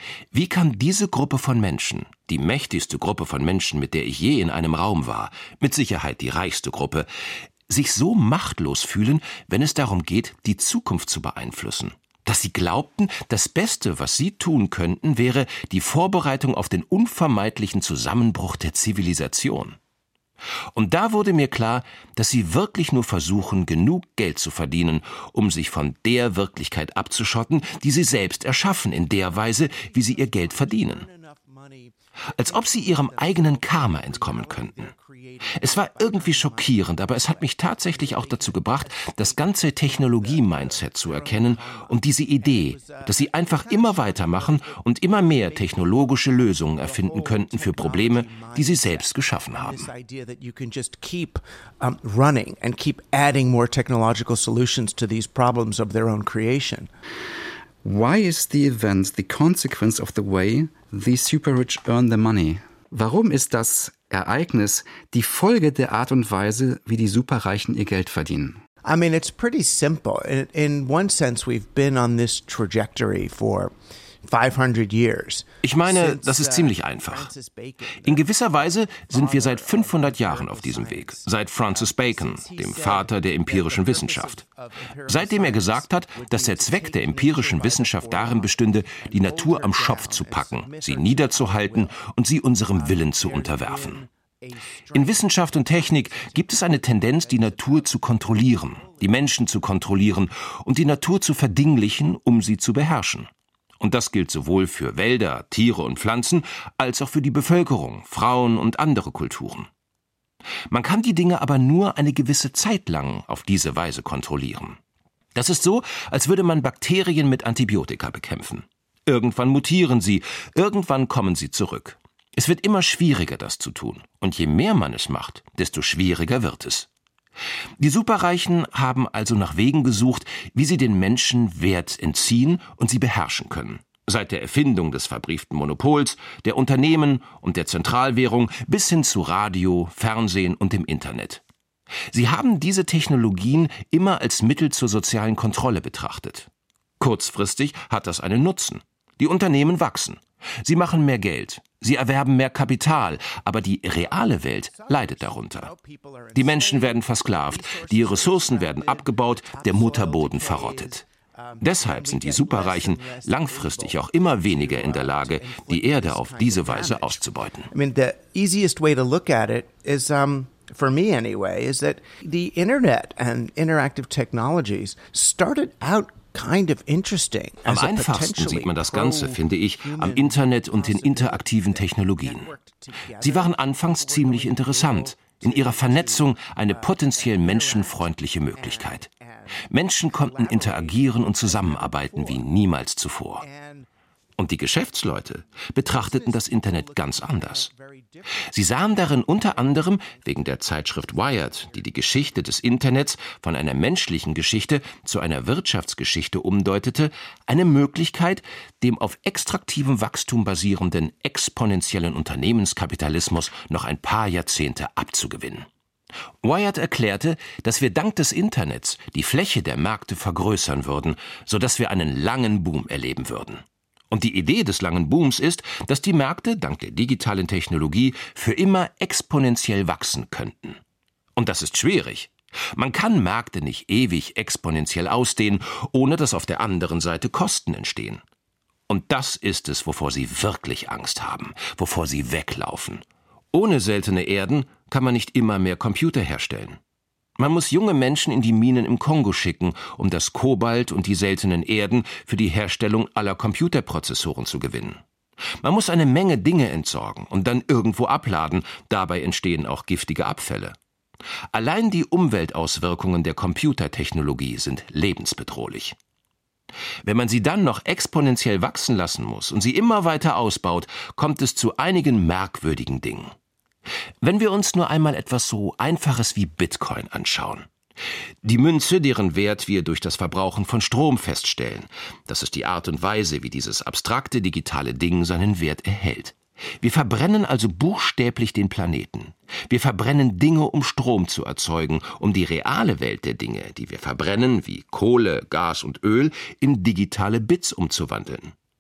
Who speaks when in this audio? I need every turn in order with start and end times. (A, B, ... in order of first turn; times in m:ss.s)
0:00.3-0:07.1 A
0:07.7-0:19.8 A
0:20.8-0:31.1 A
0:28.4-0:56.9 B
0:32.3-0:34.9 A
0:35.6-0:49.9 A
0:57.8-1:08.6 C
1:08.8-1:13.7 B
1:14.3-1:32.0 B
1:15.6-1:17.3 A
1:18.0-1:24.4 A
1:25.1-1:34.0 A
1:32.7-1:39.5 B
1:34.9-1:49.7 A
1:50.7-1:54.8 A
1:55.4-2:06.9 A
2:07.8-2:21.4 A
2:22.1-2:26.5 A
2:27.0-2:35.7 A
2:34.0-3:12.5 B
2:36.4-2:41.0 A
2:41.6-2:47.7 A
2:57.7-3:02.5 A
3:03.2-3:09.1 A
3:09.7-3:13.4 A
3:13.4-3:13.9 B
3:14.4-3:17.7 A
3:15.8-3:22.3 B
3:18.5-3:35.7 A
3:36.4-3:50.8 A
3:51.4-3:58.2 A
3:58.9-4:06.8 A
4:07.4-4:15.0 A
4:15.6-4:20.8 A
4:21.5-4:26.0 A
4:27.0-4:33.3 A
4:34.2-4:37.7 A
4:38.4-4:58.5 A